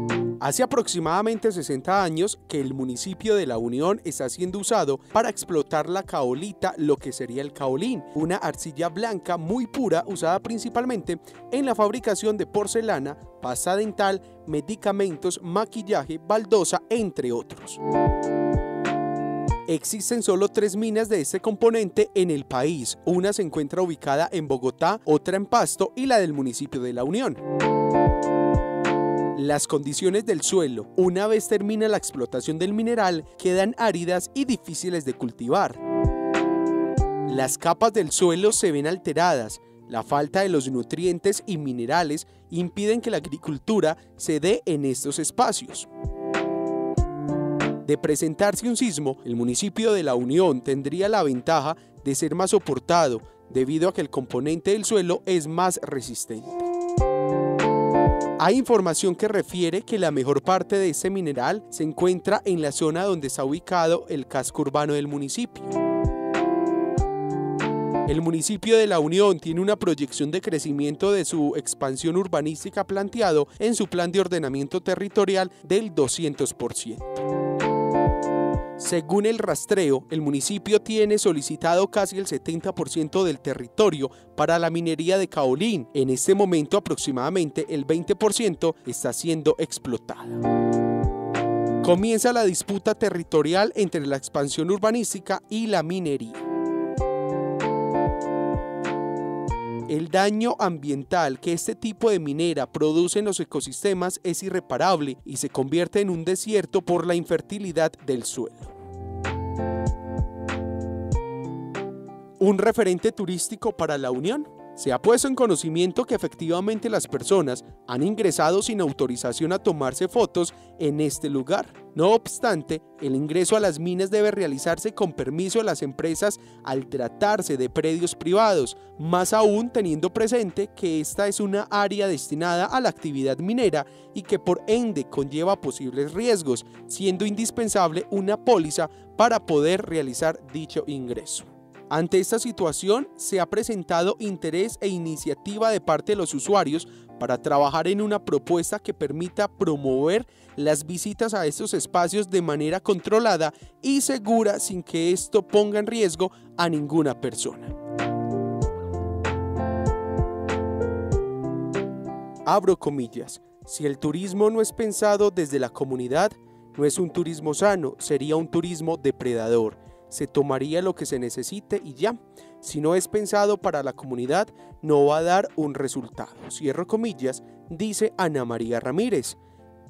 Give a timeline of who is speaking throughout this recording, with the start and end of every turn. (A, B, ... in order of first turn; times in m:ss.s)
0:00.4-0:17.8 A
0:19.7-0:27.4 A
0:29.3-0:35.8 A
0:37.3-0:45.9 A
0:47.8-0:56.7 A
0:58.4-1:05.8 A
1:08.1-1:17.2 A
1:18.8-1:30.4 A
1:31.8-1:36.4 A
1:39.9-1:48.7 A
1:52.4-2:37.8 A
2:42.5-2:59.4 A